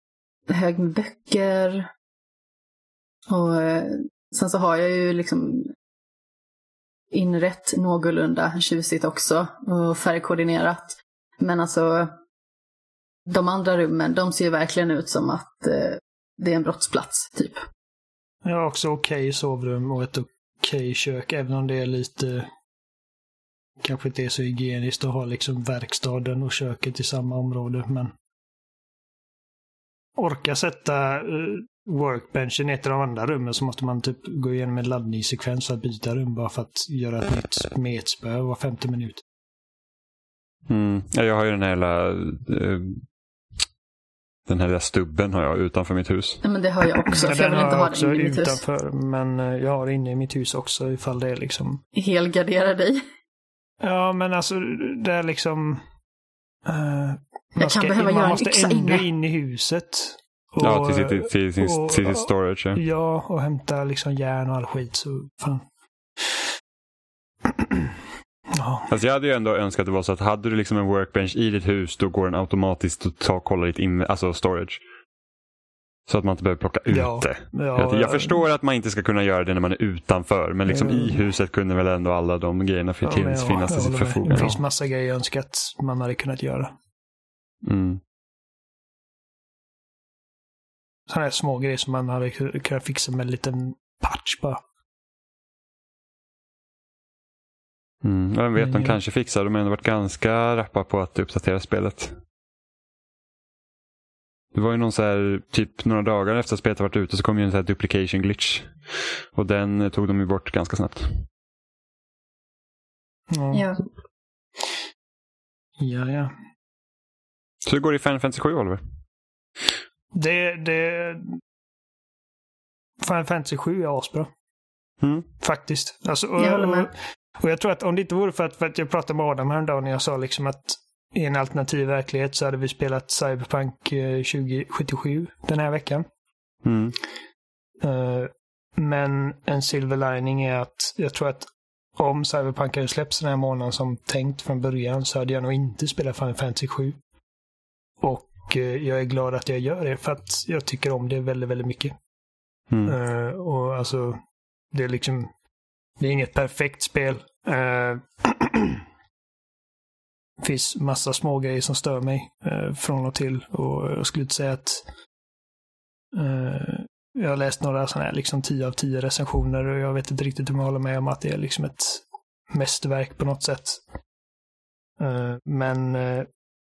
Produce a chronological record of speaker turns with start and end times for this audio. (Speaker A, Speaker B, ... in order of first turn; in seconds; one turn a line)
Speaker A: 0.5-1.9
Speaker A: 3.3-5.7
Speaker A: 7.1-12.1
Speaker A: 13.3-17.6
Speaker B: 18.4-22.5
Speaker B: 23.8-28.1
Speaker B: 30.2-39.2
Speaker C: 40.7-43.0
Speaker C: 44.5-46.4
Speaker A: 46.4-48.6
Speaker B: 47.1-51.8
Speaker A: 52.0-53.0
Speaker B: 53.8-55.8
Speaker B: 56.6-65.6
Speaker A: 57.6-59.0
Speaker C: 60.6-62.8
Speaker B: 67.6-67.9
Speaker B: 68.5-68.9
Speaker C: 68.9-74.8
Speaker C: 76.1-84.6
Speaker B: 76.9-78.4
Speaker B: 80.7-81.2
Speaker B: 83.0-86.7
Speaker C: 87.6-88.0
Speaker B: 91.1-94.6
Speaker C: 98.0-102.2
Speaker B: 98.6-99.0
Speaker C: 104.5-111.2
Speaker B: 113.3-113.6
Speaker A: 113.5-113.8
Speaker B: 115.8-116.3
Speaker C: 117.6-118.8
Speaker B: 120.1-121.4
Speaker B: 123.0-124.3
Speaker B: 125.4-136.0
Speaker A: 126.4-126.9
Speaker C: 136.6-136.9
Speaker B: 137.8-147.0
Speaker B: 148.0-151.9
Speaker C: 152.7-152.9
Speaker B: 152.8-154.2
Speaker B: 154.7-155.3
Speaker B: 156.0-158.8
Speaker B: 160.4-164.8
Speaker B: 166.1-173.8
Speaker B: 175.0-176.3